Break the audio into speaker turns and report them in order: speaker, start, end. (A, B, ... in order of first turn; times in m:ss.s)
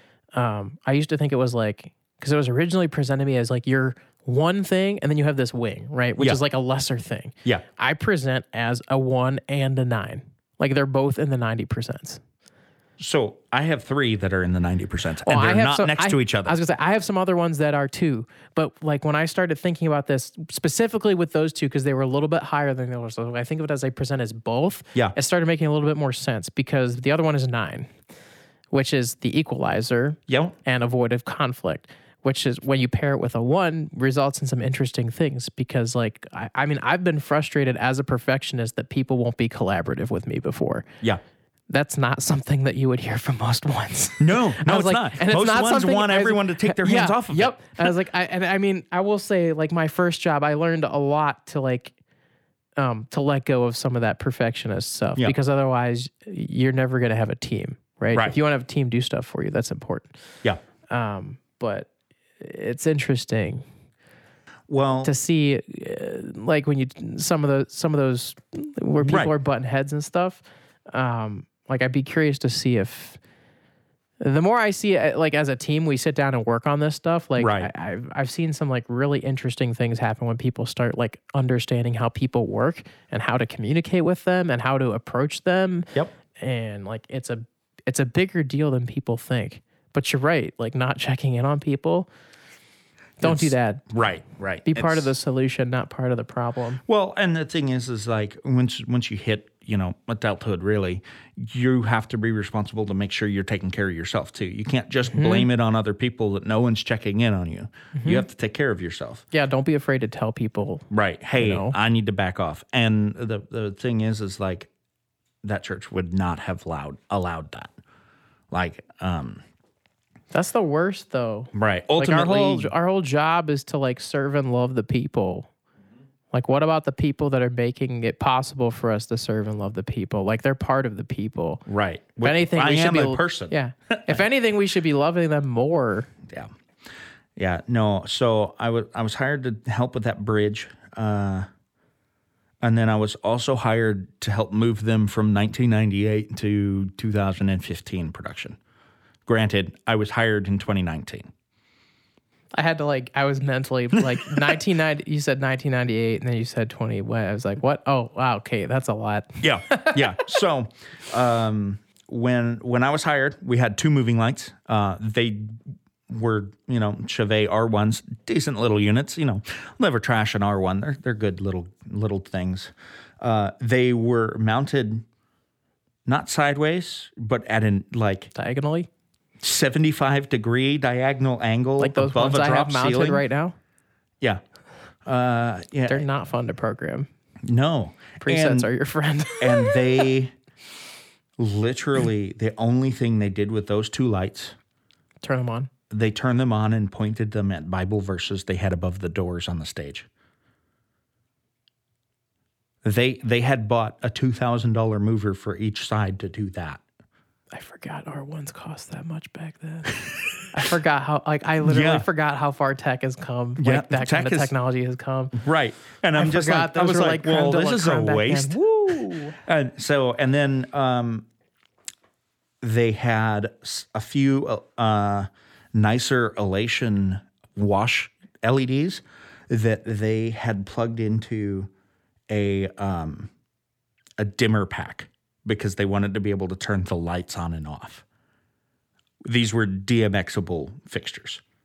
0:00.3-0:12.2 A
0:13.0-0:16.6 B
0:15.2-0:27.9 A
0:28.7-0:40.9 A
0:30.3-0:30.6 B
0:41.7-0:51.9 A
0:44.2-0:47.9 B
0:52.8-1:00.1 A
1:00.9-1:01.9 A
1:02.4-1:03.6 A
1:04.7-1:05.1 B
1:05.0-1:13.2 A
1:09.0-1:09.3 B
1:14.2-1:32.1 A
1:17.4-1:17.7 B
1:33.2-1:33.8 A
1:33.2-1:35.1 B
1:34.6-1:36.8 A
1:36.8-1:49.2 B
1:45.1-1:45.5 A
1:47.9-1:48.2 A
1:49.3-1:50.8 A
1:50.9-1:54.7 B
1:51.4-1:51.8 A
1:55.4-1:57.7 B
1:58.5-1:59.4 B
2:00.3-2:05.5 A
2:01.5-2:02.7 B
2:06.3-2:11.6 A
2:11.6-2:14.2 B
2:12.2-2:16.1 A
2:17.4-2:21.5 B
2:22.6-2:28.6 B
2:29.2-2:31.3 B
2:32.5-2:40.0 A
2:39.4-2:45.5 B
2:46.1-2:55.0 B
2:56.0-2:58.3 B
2:58.3-2:58.9 A
2:59.4-3:03.2 B
3:01.8-3:03.5 A
3:05.0-3:06.0 B
3:05.9-3:07.1 A
3:07.4-3:08.7 B
3:08.2-3:10.0 A
3:09.4-3:10.3 B
3:11.4-3:14.6 B
3:15.2-3:15.7 A
3:15.9-3:20.1 B
3:22.8-3:26.8 B
3:27.5-3:30.0 A
3:30.5-3:35.4 A
3:31.6-3:32.0 B
3:33.6-3:34.5 B
3:35.3-3:41.2 B
3:36.1-3:39.3 A
3:42.6-3:51.7 B
3:52.3-3:53.3 B
3:54.2-3:58.0 B
3:59.2-4:01.4 B